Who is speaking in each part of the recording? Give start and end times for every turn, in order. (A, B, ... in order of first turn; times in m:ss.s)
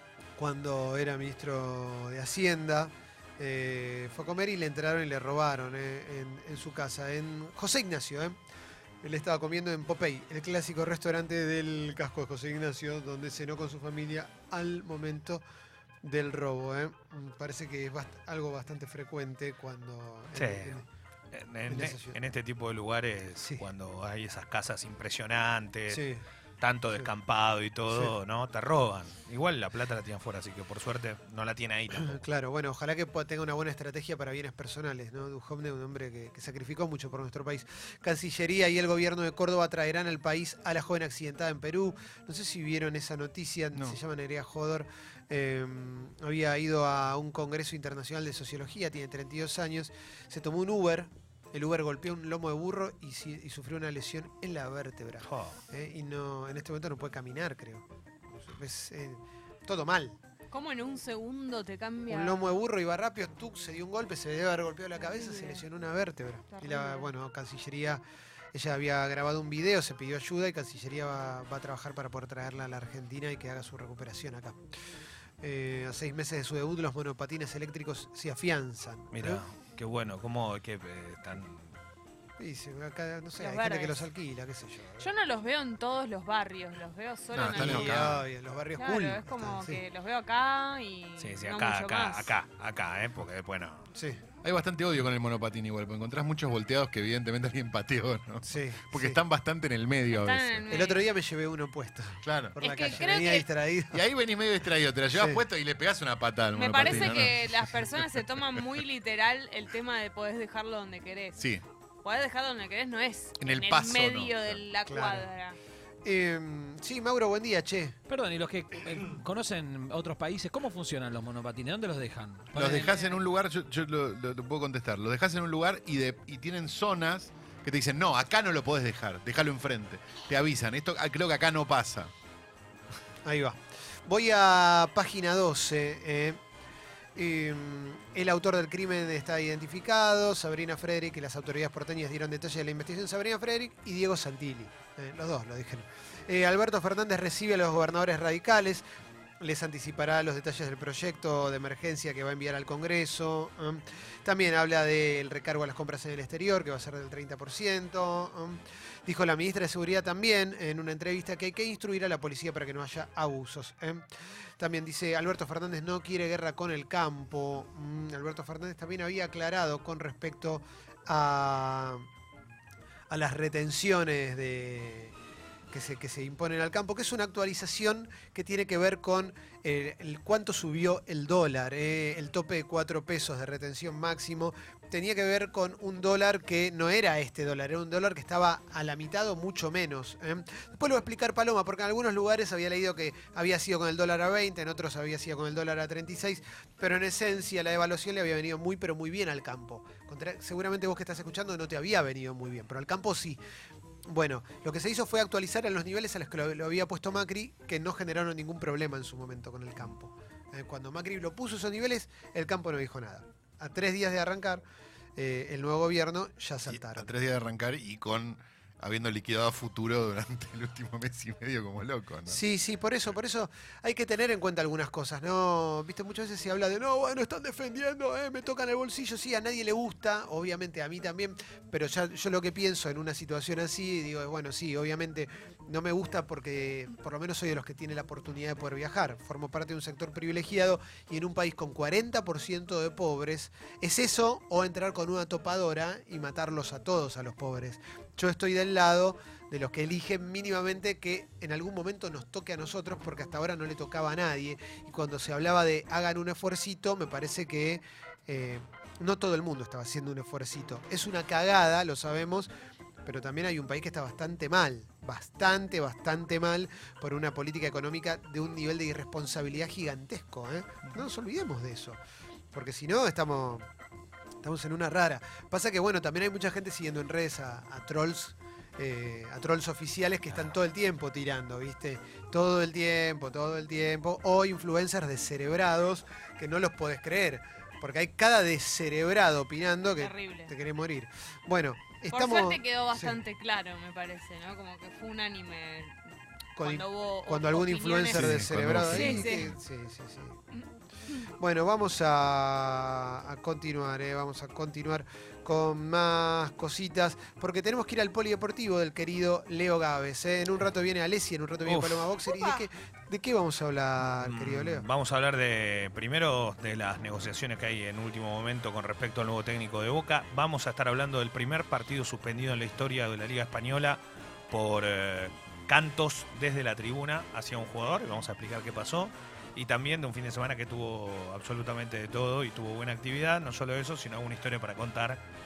0:00.4-0:08.4 A
0:09.0-0:15.4 A
0:16.0-0:20.8 A
0:20.4-0:20.8 B
0:21.3-0:26.0 B
0:21.7-0:22.2 A
0:25.9-0:26.2 A
0:26.6-0:32.2 B
0:32.0-1:00.2 A
0:55.2-0:55.6 B
1:00.5-1:02.5 C
1:02.1-1:08.0 A
1:05.0-1:05.6 C
1:06.5-1:07.1 C
1:08.5-1:14.6 A
1:15.4-1:19.4 A
1:19.1-1:21.7 B
1:22.4-1:25.1 A
1:23.4-1:24.0 C
1:25.0-1:28.2 C
1:27.3-1:28.2 D
1:27.6-1:29.8 A
1:28.8-1:32.3 C
1:31.2-1:33.9 B
1:34.0-1:34.2 A
1:34.4-1:40.7 D
1:38.4-1:39.2 A
1:40.1-1:41.1 C
1:40.7-1:44.0 A
1:42.2-1:43.0 D
1:42.6-1:43.5 C
1:43.9-1:48.8 D
1:45.1-1:45.4 A
1:46.5-1:51.5 C
1:46.8-1:47.1 A
1:51.4-1:51.6 D
1:52.0-1:55.6 C
1:53.4-1:54.6 D
1:54.8-1:55.3 A
1:56.0-1:58.0 A
1:58.1-2:03.0 E
2:02.5-2:12.1 D
2:13.2-2:16.4 A
2:17.2-2:28.8 A
2:29.4-2:44.1 A
2:44.6-2:52.1 A
2:53.1-2:55.2 A
2:55.7-3:23.4 A
3:24.1-3:34.6 A
3:35.2-3:37.1 A
3:36.7-3:42.4 D
3:42.3-4:22.5 A
4:23.0-4:32.0 A
4:32.5-4:33.7 A
4:34.4-4:53.2 A
4:50.0-4:50.5 C
4:52.1-4:56.0 C
4:56.6-5:00.4 A
4:56.6-4:59.5 C
4:58.2-4:59.6 D
5:01.4-5:14.8 A
5:14.0-5:35.2 B